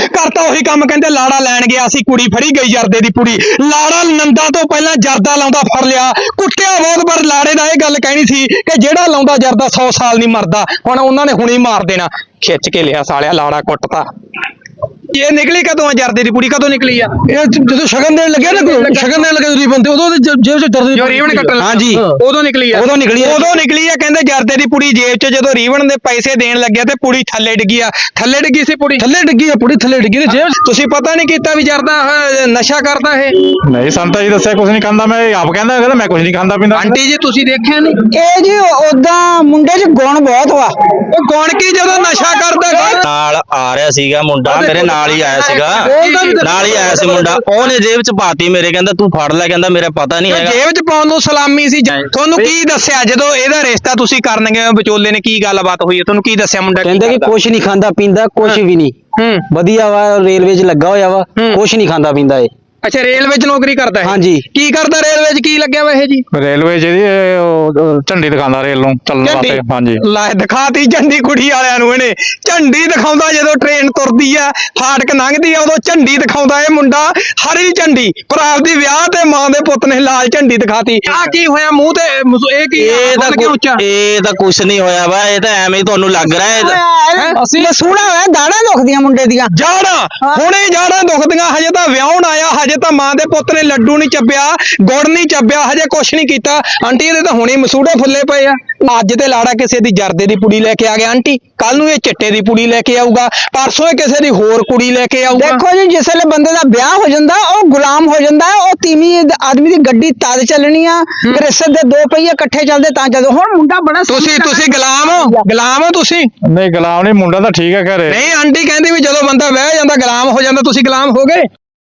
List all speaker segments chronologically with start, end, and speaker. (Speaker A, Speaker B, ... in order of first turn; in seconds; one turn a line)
Speaker A: 0.1-14.1
Speaker A: 15.1-17.1
Speaker B: 17.3-22.2
Speaker A: 18.5-19.3
Speaker A: 20.9-29.0
Speaker C: 21.6-22.0
Speaker C: 22.7-23.5
Speaker B: 29.0-30.5
Speaker A: 30.3-33.4
Speaker D: 33.6-37.0
Speaker A: 36.7-38.0
Speaker E: 38.1-40.7
Speaker A: 41.1-43.0
Speaker E: 42.1-43.0
Speaker F: 43.0-50.6
Speaker A: 44.5-47.7
Speaker B: 45.8-47.1
Speaker A: 50.3-57.3
Speaker C: 56.8-58.9
Speaker A: 59.2-59.5
Speaker C: 59.5-62.5
Speaker A: 61.4-61.6
Speaker A: 62.8-66.2
Speaker C: 64.0-64.5
Speaker D: 66.3-70.0
Speaker A: 69.2-83.8
Speaker F: 82.8-86.8
Speaker E: 86.3-89.5
Speaker A: 87.2-87.7
Speaker A: 89.5-105.6
Speaker E: 105.3-115.4
Speaker A: 114.1-116.3
Speaker D: 116.5-118.2
Speaker A: 118.1-121.5